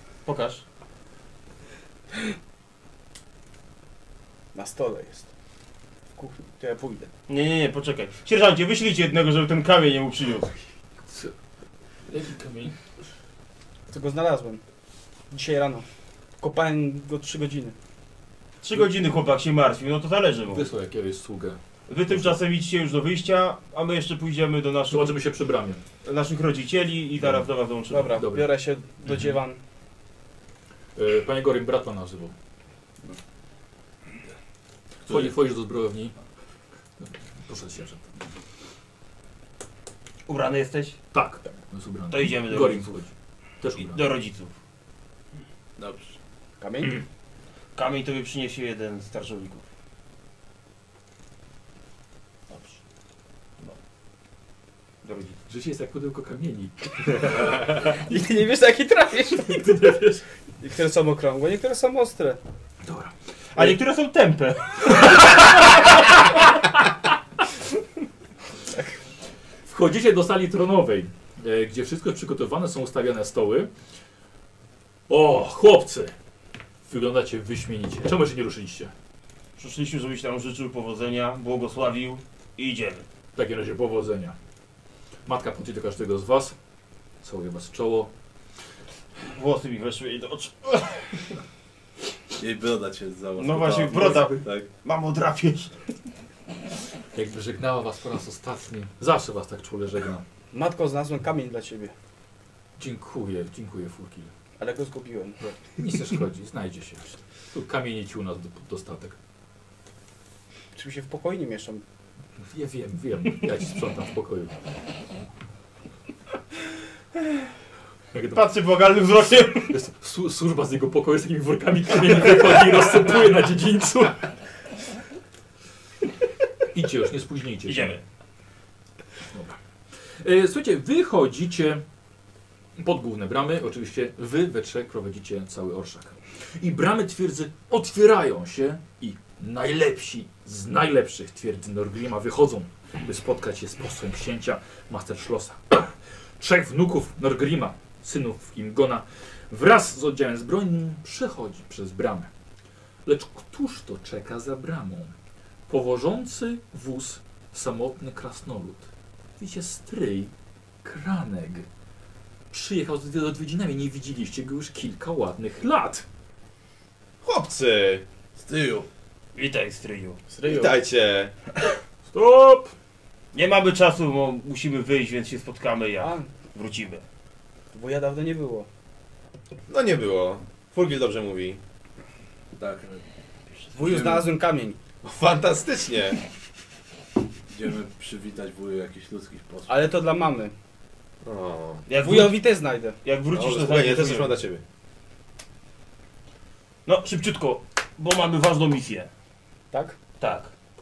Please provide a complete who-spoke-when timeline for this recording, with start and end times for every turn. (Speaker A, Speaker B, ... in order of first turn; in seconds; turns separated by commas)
Speaker A: 0.2-0.6, Speaker B: 4.5-5.3, Speaker B: 6.2-7.1, Speaker A: 7.3-10.5, Speaker C: 12.1-12.8, Speaker B: 13.9-14.6, Speaker B: 15.3-15.9, Speaker B: 16.4-17.8, Speaker A: 18.6-20.7, Speaker C: 20.5-22.4, Speaker A: 21.9-25.1, Speaker C: 24.9-25.8, Speaker A: 26.0-28.1, Speaker C: 27.2-27.5, Speaker B: 27.9-29.6, Speaker C: 28.1-28.5, Speaker C: 31.0-32.3, Speaker C: 35.1-36.1, Speaker C: 37.0-38.1, Speaker A: 40.3-41.0, Speaker C: 41.1-43.1, Speaker A: 42.1-43.0, Speaker C: 43.6-44.0, Speaker A: 43.8-44.5, Speaker D: 45.8-46.2, Speaker B: 46.6-47.0, Speaker A: 47.8-49.6, Speaker A: 55.0-55.4, Speaker C: 55.5-58.0, Speaker B: 57.4-60.1, Speaker C: 59.3-60.2, Speaker B: 60.6-62.4, Speaker C: 62.8-63.8, Speaker A: 63.5-65.0, Speaker B: 68.7-69.0, Speaker C: 69.7-73.7, Speaker C: 75.1-76.1, Speaker C: 76.9-78.9, Speaker A: 79.6-83.0, Speaker C: 83.3-84.3, Speaker C: 85.3-86.5, Speaker C: 87.2-88.1, Speaker A: 89.3-91.2, Speaker D: 92.4-94.7, Speaker A: 93.4-95.7, Speaker C: 97.1-100.2, Speaker B: 100.5-101.9, Speaker C: 102.8-104.3, Speaker B: 104.6-105.6, Speaker C: 105.7-109.2, Speaker B: 110.8-111.8, Speaker C: 112.5-114.5, Speaker C: 118.1-118.4, Speaker A: 118.3-119.8, Speaker C: 119.7-124.3, Speaker C: 126.7-128.0, Speaker A: 127.7-128.0, Speaker C: 129.3-131.8, Speaker C: 132.8-152.3, Speaker C: 153.1-155.1, Speaker C: 155.7-158.9, Speaker C: 159.4-160.3, Speaker C: 160.8-161.7, Speaker C: 162.5-166.1, Speaker E: 167.2-168.1, Speaker D: 168.4-168.9, Speaker A: 169.3-170.2, Speaker B: 170.3-170.8, Speaker E: 170.4-171.3, Speaker C: 172.1-172.7, Speaker A: 173.3-177.0, Speaker B: 176.0-176.3, Speaker B: 177.7-178.7, Speaker E: 179.7-181.6, Speaker D: 182.6-183.1, Speaker D: 183.7-184.3, Speaker B: 183.7-184.8, Speaker E: 185.0-186.2, Speaker D: 187.5-189.9, Speaker B: 189.7-190.5, Speaker E: 191.2-191.9, Speaker A: 191.9-192.5, Speaker B: 192.0-193.0, Speaker A: 193.0-194.3, Speaker E: 193.3-194.6, Speaker A: 196.9-199.1, Speaker B: 199.7-200.0, Speaker A: 200.2-200.5